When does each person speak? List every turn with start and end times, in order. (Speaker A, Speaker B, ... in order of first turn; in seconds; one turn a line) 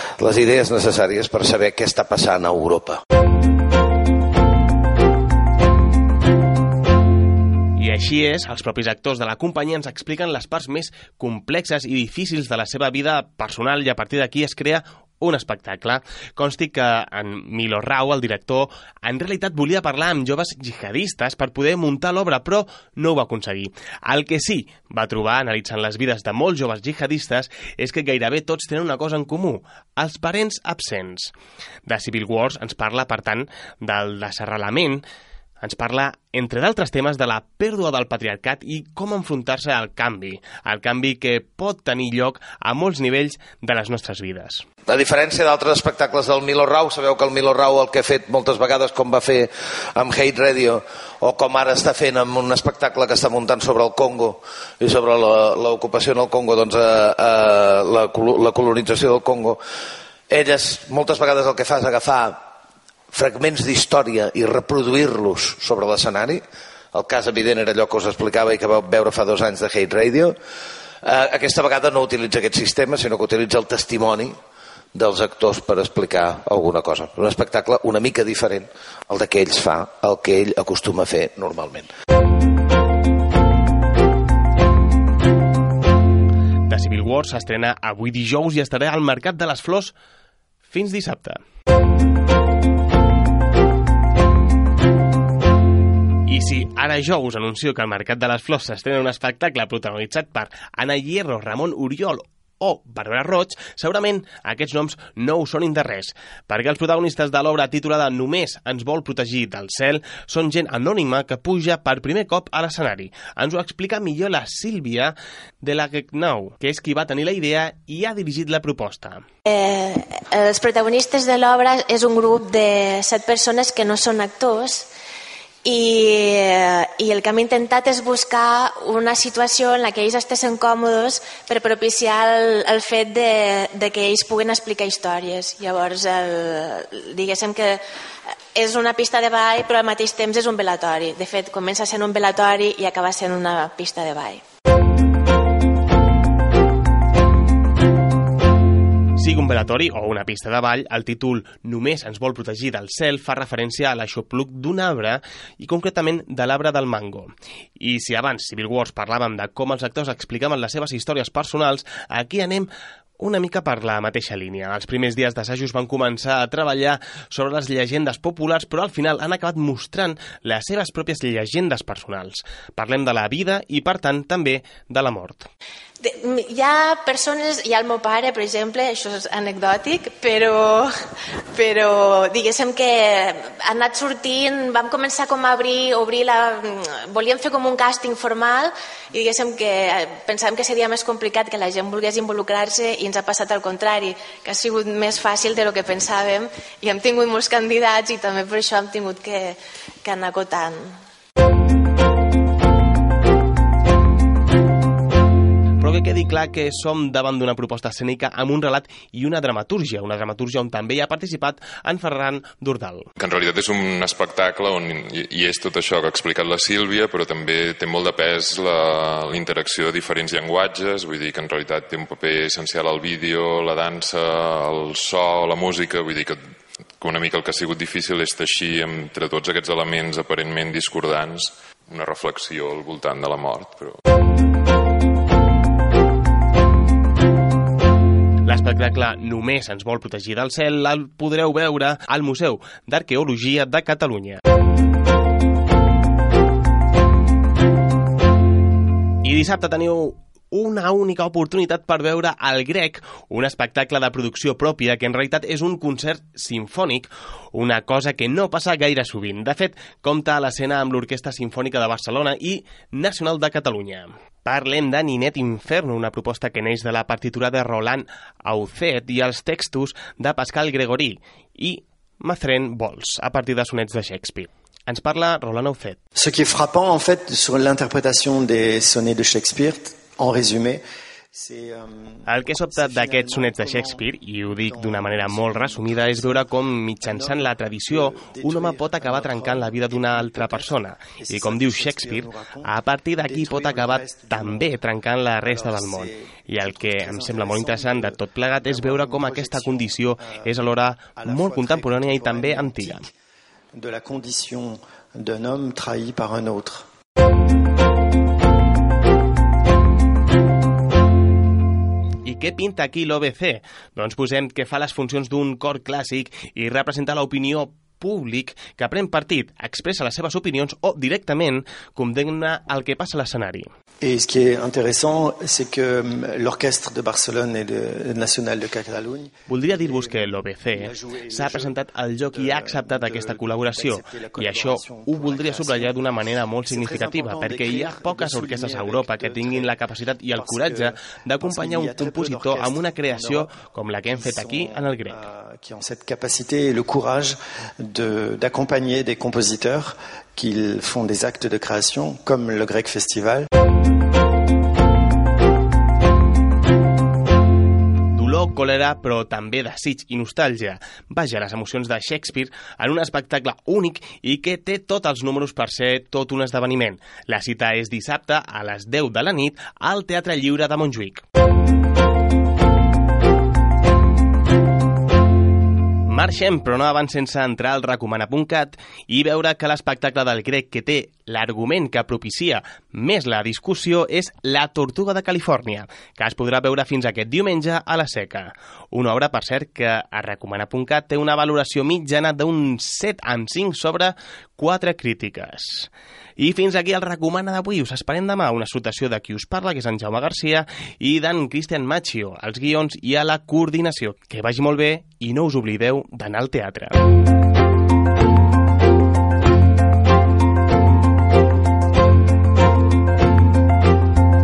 Speaker A: 0.2-3.0
Speaker B: 7.8-35.0
Speaker B: 35.6-44.6
Speaker A: 44.9-59.6
Speaker A: 60.3-62.4
Speaker A: 63.1-66.4
Speaker A: 66.9-70.3
Speaker A: 71.0-74.4
Speaker A: 74.9-81.9
Speaker B: 86.7-89.9
Speaker B: 90.7-91.4
Speaker B: 96.3-119.2
Speaker C: 119.5-124.9
Speaker C: 125.6-137.8
Speaker C: 138.6-144.4
Speaker B: 149.2-175.5
Speaker C: 176.0-180.9
Speaker C: 181.6-200.9
Speaker B: 205.8-213.1
Speaker D: 213.2-226.4
Speaker D: 227.0-234.0
Speaker B: 238.4-244.4
Speaker B: 249.2-276.0
Speaker E: 276.1-280.8
Speaker E: 281.3-284.1
Speaker B: 282.3-303.1
Speaker E: 284.6-286.5
Speaker E: 287.0-294.8
Speaker E: 295.4-303.1
Speaker E: 303.7-306.8
Speaker B: 312.2-323.7
Speaker E: 324.0-336.1
Speaker B: 329.5-345.2
Speaker E: 336.7-339.7
Speaker E: 340.3-343.6
Speaker E: 344.1-353.5
Speaker B: 358.1-371.2
Speaker B: 376.1-407.0